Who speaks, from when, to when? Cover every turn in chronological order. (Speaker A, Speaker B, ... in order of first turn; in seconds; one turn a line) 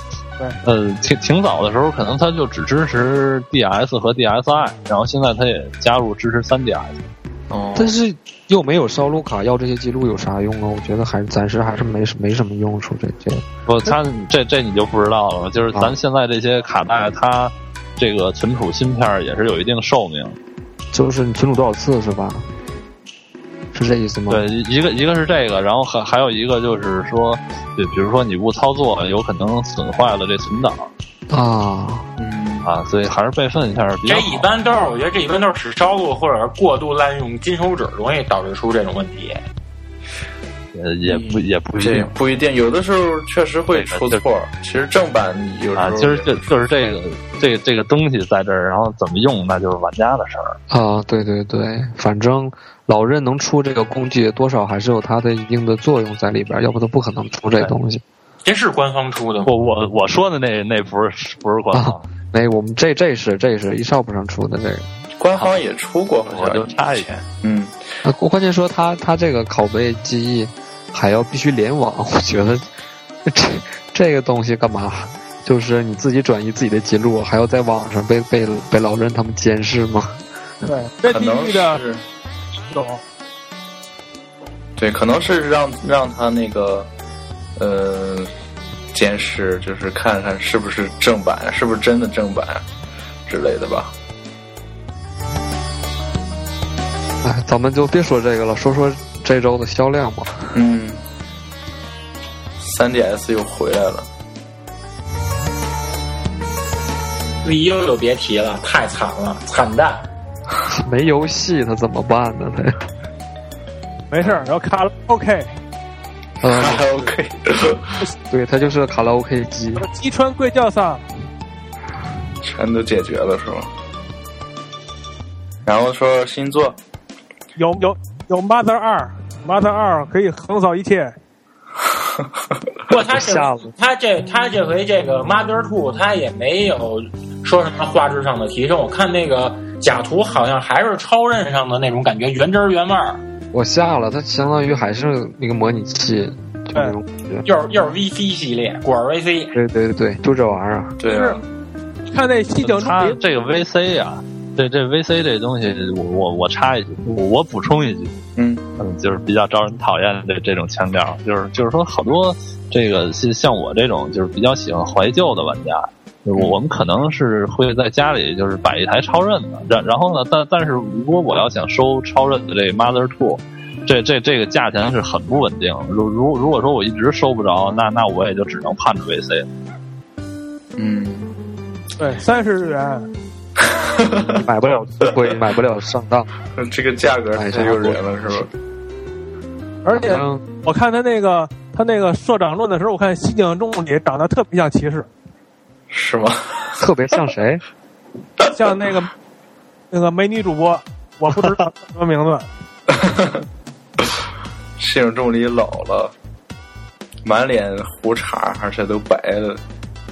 Speaker A: 0.6-7.0
Speaker B: 7.5-7.9
Speaker C: 7.8-13.4
Speaker A: 13.7-20.4
Speaker C: 20.9-22.5
Speaker C: 23.7-24.4
Speaker A: 24.3-30.9
Speaker C: 31.3-32.1
Speaker B: 32.2-32.7
Speaker A: 32.6-34.5
Speaker D: 34.1-39.4
Speaker A: 40.7-42.1
Speaker B: 41.1-46.4
Speaker A: 43.7-44.2
Speaker A: 45.8-50.6
Speaker C: 50.7-58.0
Speaker D: 58.5-59.5
Speaker A: 59.5-62.1
Speaker C: 61.7-64.9
Speaker B: 65.2-67.8
Speaker A: 66.3-67.1
Speaker C: 68.0-72.7
Speaker C: 73.2-80.2
Speaker E: 80.6-81.8
Speaker B: 81.1-82.0
Speaker E: 82.7-83.0
Speaker B: 84.8-86.9
Speaker B: 87.6-88.3
Speaker B: 88.9-92.7
Speaker B: 93.3-93.9
Speaker C: 97.2-100.6
Speaker B: 100.5-101.0
Speaker B: 102.6-104.1
Speaker D: 107.4-110.1
Speaker C: 110.7-112.8
Speaker E: 114.1-115.5
Speaker C: 116.4-116.9
Speaker B: 116.4-118.0
Speaker C: 118.3-119.9
Speaker E: 119.8-121.0
Speaker B: 122.4-123.7
Speaker B: 125.7-126.8
Speaker E: 127.6-131.2
Speaker D: 132.9-143.2
Speaker C: 133.1-133.7
Speaker C: 143.5-147.5
Speaker D: 147.5-149.5
Speaker C: 149.5-151.0
Speaker B: 151.0-151.4
Speaker E: 151.1-151.4
Speaker E: 152.1-153.2
Speaker A: 152.6-158.2
Speaker B: 158.4-158.6
Speaker A: 158.8-179.5
Speaker B: 180.8-181.3
Speaker E: 182.0-183.1
Speaker B: 183.6-184.5
Speaker C: 184.4-186.3
Speaker B: 186.6-188.5
Speaker C: 187.3-188.5
Speaker E: 189.8-195.1
Speaker C: 189.9-190.4
Speaker B: 195.9-196.8
Speaker C: 196.8-197.6
Speaker E: 198.6-199.1
Speaker E: 199.9-202.5
Speaker B: 202.9-203.4
Speaker B: 204.8-206.1
Speaker B: 207.2-209.6